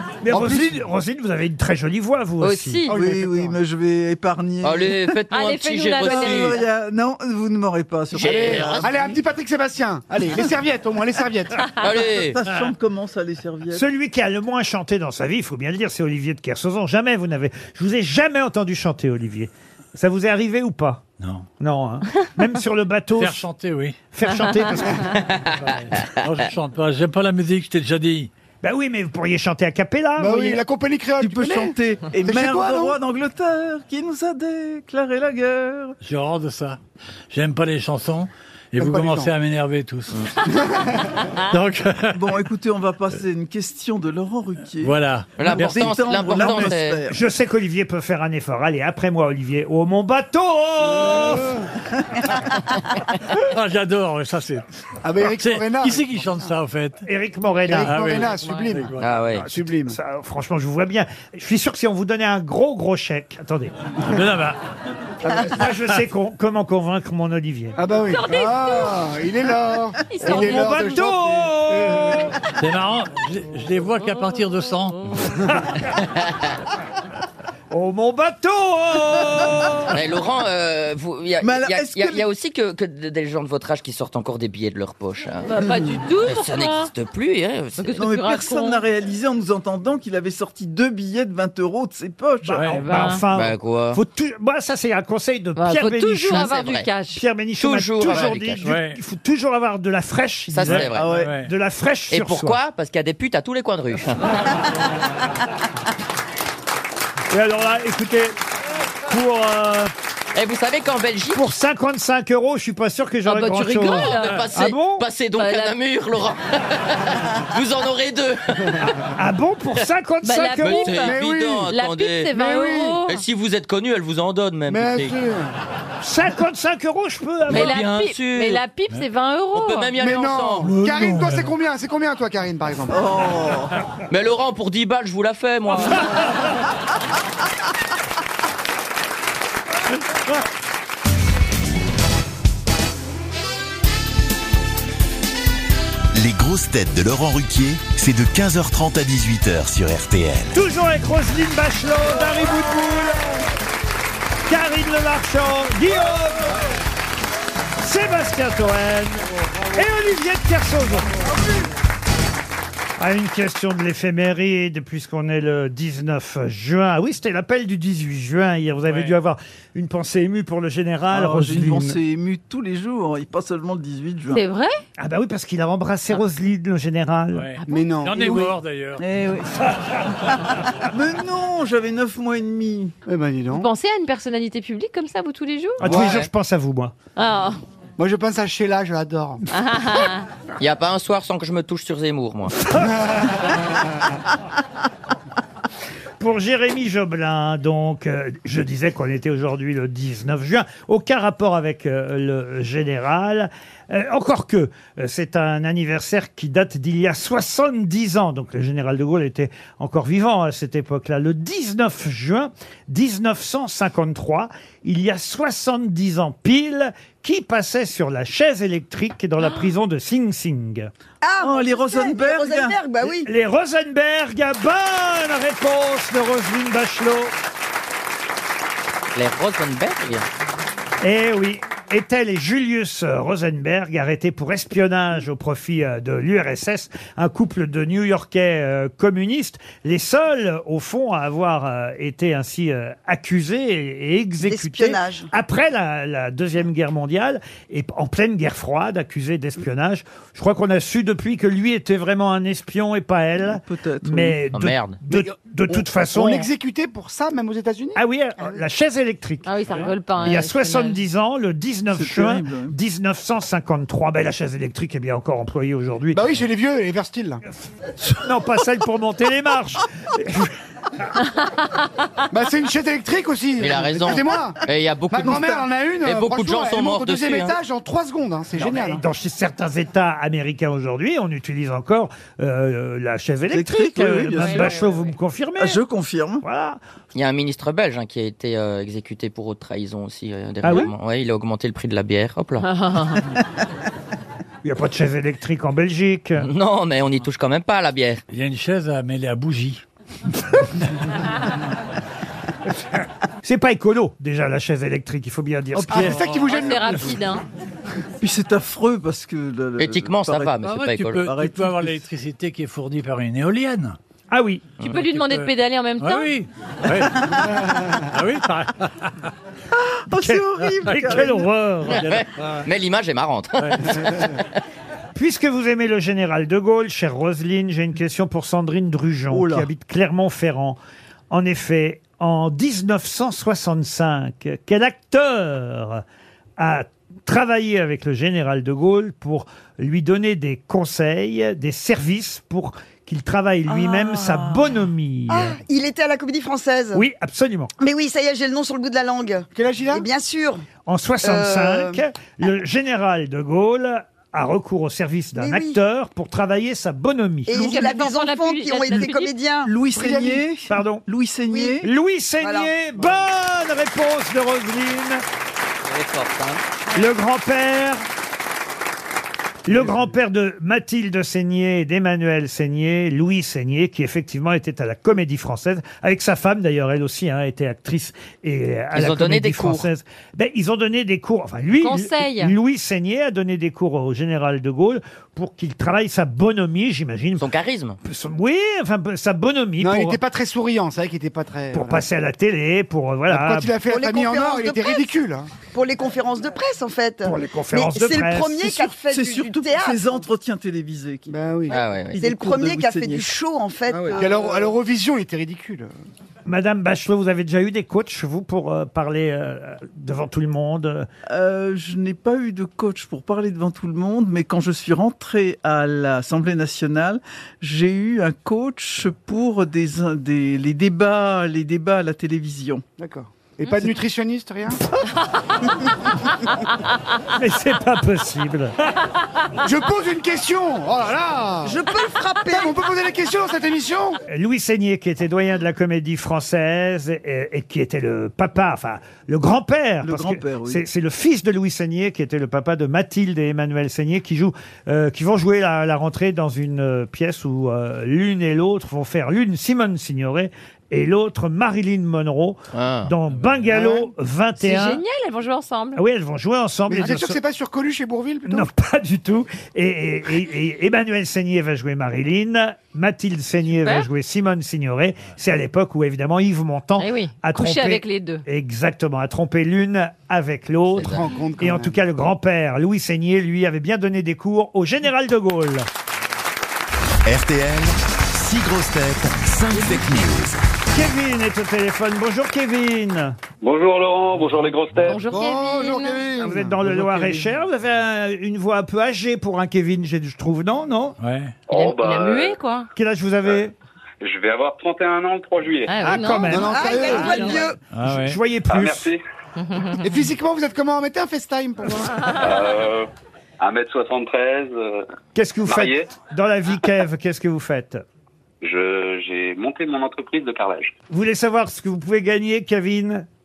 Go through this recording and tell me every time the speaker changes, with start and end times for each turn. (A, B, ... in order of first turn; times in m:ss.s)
0:00.2-0:02.9 A
0:00.3-0:00.8 B
0:02.4-0:03.0 C
0:02.9-0:03.6 B
0:02.9-0:05.1 D
0:04.6-0:06.6 E
0:05.3-0:06.6 C
0:06.0-0:08.9 D
0:08.1-0:08.9 E
0:08.2-0:11.6 B
0:11.8-0:12.4 E
0:12.1-0:13.8 D
0:13.7-0:21.0 A
0:21.2-0:21.5 F
0:21.6-0:23.5 A
0:23.2-0:24.0 F
0:24.1-0:25.2 A
0:25.6-0:28.3 F
0:28.6-0:30.6 A
0:30.2-0:33.0 B
0:31.2-0:36.0 D
0:36.0-0:36.8 F
0:37.3-0:40.2 F
0:38.8-0:39.3 B
0:41.5-0:42.4 F
0:42.1-0:45.0 D
0:44.8-0:45.9 F
0:45.4-0:47.0 E
0:45.5-0:47.2 D
0:47.0-0:51.6 A
0:51.0-0:51.6 B
0:53.4-0:54.6 F
0:55.0-0:56.5 B
0:55.2-0:57.0 F
0:57.0-0:58.2 A
0:57.7-1:00.0 B
0:57.7-0:59.0 F
0:59.0-0:59.4 E
0:59.5-1:03.7 A
1:04.1-1:04.6 F
1:05.2-1:05.5 B
1:05.3-1:07.8 A
1:07.8-1:12.3 B
1:08.1-1:09.0 C
1:10.1-1:10.7 C
1:10.2-1:12.3 A
1:12.6-1:15.2 F
1:15.3-1:15.8 A
1:17.7-1:20.0 A
1:19.9-1:25.5 E
1:21.4-1:22.2 D
1:25.4-1:26.9 C
1:26.2-1:28.0 E
1:27.8-1:28.8 C
1:28.0-1:32.7 D
1:32.5-1:32.9 F
1:32.6-1:42.6 A
1:32.8-1:33.2 C
1:33.3-1:34.0 E
1:35.6-1:37.2 C
1:36.3-1:36.9 E
1:37.6-1:38.6 E
1:38.6-1:39.0 F
1:40.5-1:41.1 E
1:40.6-1:41.5 F
1:40.9-1:41.4 D
1:42.1-1:44.4 E
1:47.3-1:48.4 A
1:49.1-1:49.9 A
1:50.3-1:51.4 E
1:51.3-1:55.0 A
1:53.2-1:54.4 C
1:54.1-1:58.9 E
1:55.4-1:55.7 C
1:59.1-2:01.0 A
2:00.2-2:01.2 C
2:00.6-2:02.3 E
2:01.0-2:01.7 B
2:01.7-2:03.2 C
2:02.3-2:03.0 B
2:03.1-2:05.2 E
2:04.7-2:05.5 B
2:06.0-2:07.8 A
2:07.5-2:08.6 E
2:07.5-2:09.9 C
2:09.5-2:10.7 E
2:10.0-2:13.0 B
2:10.6-2:11.5 F
2:12.9-2:13.8 D
2:14.1-2:16.2 E
2:26.1-2:30.5 G
2:30.5-2:33.5 A
2:34.5-2:36.6 A
2:37.8-2:41.2 A
2:43.0-2:52.0 A
2:48.9-2:49.1 F
2:51.1-2:54.4 D
2:54.3-2:54.8 C
2:55.0-2:57.5 A
2:57.3-2:59.0 F
2:57.6-2:57.9 C
2:57.7-2:58.5 B
2:59.0-2:59.6 D
3:00.8-3:02.9 D
3:03.0-3:03.7 B
3:03.5-3:05.9 C
3:05.8-3:06.9 A
3:05.8-3:06.2 B
3:05.8-3:06.3 E
3:07.2-3:07.6 C
3:08.0-3:09.4 B
3:09.5-3:10.2 C
3:10.6-3:12.6 E
3:12.8-3:13.5 A
3:16.2-3:40.9 A
3:41.2-3:43.3 H
3:41.4-3:42.8 D
3:43.2-3:47.3 A
3:49.1-3:50.3 E
3:51.0-4:16.5 A
4:04.4-4:05.3 H
4:13.4-4:14.4 D
4:14.5-4:15.0 E
4:15.1-4:18.0 B
4:18.0-4:19.5 A
4:19.4-4:21.0 C
4:20.2-4:26.3 A
4:21.9-4:22.7 D
4:26.1-4:27.4 B
4:28.0-4:30.5 A
4:32.3-4:39.0 B
4:33.6-4:37.5 E
4:38.6-4:45.8 A
4:43.5-4:44.8 D
4:44.4-4:44.9 C
4:45.6-4:46.4 D
4:46.4-4:46.8 A
4:47.1-4:52.7 E
4:50.6-4:50.9 A
4:52.6-4:53.2 C
4:54.6-4:56.4 A
4:56.4-4:58.2 E
4:58.3-4:59.8 F
5:03.4-5:06.2 A
5:05.8-5:06.4 F
5:05.9-5:07.2 B
5:06.5-5:07.4 C
5:08.2-5:10.6 D
5:09.8-5:11.3 E
5:10.6-5:14.0 F
5:11.2-5:12.1 D
5:14.3-5:14.8 A
5:14.8-5:19.3 F
5:14.8-5:16.3 C
5:19.7-5:21.4 D
5:20.1-5:22.1 A
5:20.9-5:21.3 F
5:21.9-5:24.4 E
5:21.9-5:22.6 F
5:23.6-5:24.0 F
5:25.1-5:30.8 A
5:29.3-5:29.7 D
5:31.3-5:36.0 A
5:36.6-5:45.6 A
5:43.7-5:44.7 D
5:45.3-5:47.0 H
5:46.9-5:47.7 A
5:47.8-5:50.7 H
5:49.5-5:50.1 B
5:50.8-5:57.6 A
5:51.2-5:52.0 H
5:55.4-5:55.8 H
5:57.4-5:59.7 H
5:57.5-5:59.3 C
5:57.6-5:57.9 D
5:59.6-6:01.8 D
5:59.9-6:00.4 B
6:00.7-6:01.0 A
6:01.5-6:01.9 H
6:01.8-6:05.2 A
6:02.4-6:03.1 H
6:05.9-6:06.6 E
6:06.9-6:08.0 A
6:09.7-6:27.5 A
6:18.9-6:19.9 E
6:21.8-6:22.5 C
6:27.4-6:28.0 E
6:28.0-6:30.2 A
6:29.8-6:32.1 B
6:31.7-6:33.8 A
6:33.3-6:35.5 B
6:33.8-6:35.1 H
6:35.7-6:40.2 H
6:37.2-6:38.6 A
6:38.6-6:43.3 D
6:41.3-6:41.8 B
6:41.7-6:42.2 E
6:42.2-6:44.6 H
6:43.9-6:44.3 D
6:44.1-6:45.9 B
6:46.4-6:51.1 A
6:51.3-7:02.8 D
7:03.0-7:04.8 B
7:07.3-7:08.7 A
7:09.6-7:11.8 B
7:11.6-7:12.7 H
7:12.5-7:14.2 B
7:14.3-7:35.0 A
7:20.0-7:20.8 D
7:32.7-7:33.1 E
7:33.3-7:33.7 F
7:33.7-7:34.1 B
7:34.6-7:36.0 C
7:35.9-7:37.4 A
7:36.9-7:38.7 B
7:38.4-7:55.9 A
7:43.8-7:44.1 C
7:47.0-7:48.4 C
7:51.0-7:52.0 B
7:57.2-8:00.6 G
8:00.9-8:03.4 A
8:03.6-8:05.2 I
8:05.0-8:06.3 C
8:05.2-8:07.4 B
8:06.4-8:11.2 A
8:11.2-8:11.6 F
8:11.7-8:12.5 I
8:11.7-8:12.9 C
8:12.9-8:13.7 A
8:14.2-8:15.9 I
8:15.9-8:17.6 C
8:16.0-8:17.4 A
8:16.5-8:17.6 B
8:16.7-8:17.8 H
8:17.9-8:18.4 F
8:18.1-8:19.1 A
8:18.8-8:19.2 I
8:19.6-8:20.0 C
8:20.0-8:22.2 B
8:22.4-8:23.0 I
8:23.6-8:24.9 I
8:25.3-8:28.0 A
8:25.7-8:26.0 I
8:28.6-8:30.9 I
8:31.1-8:33.2 A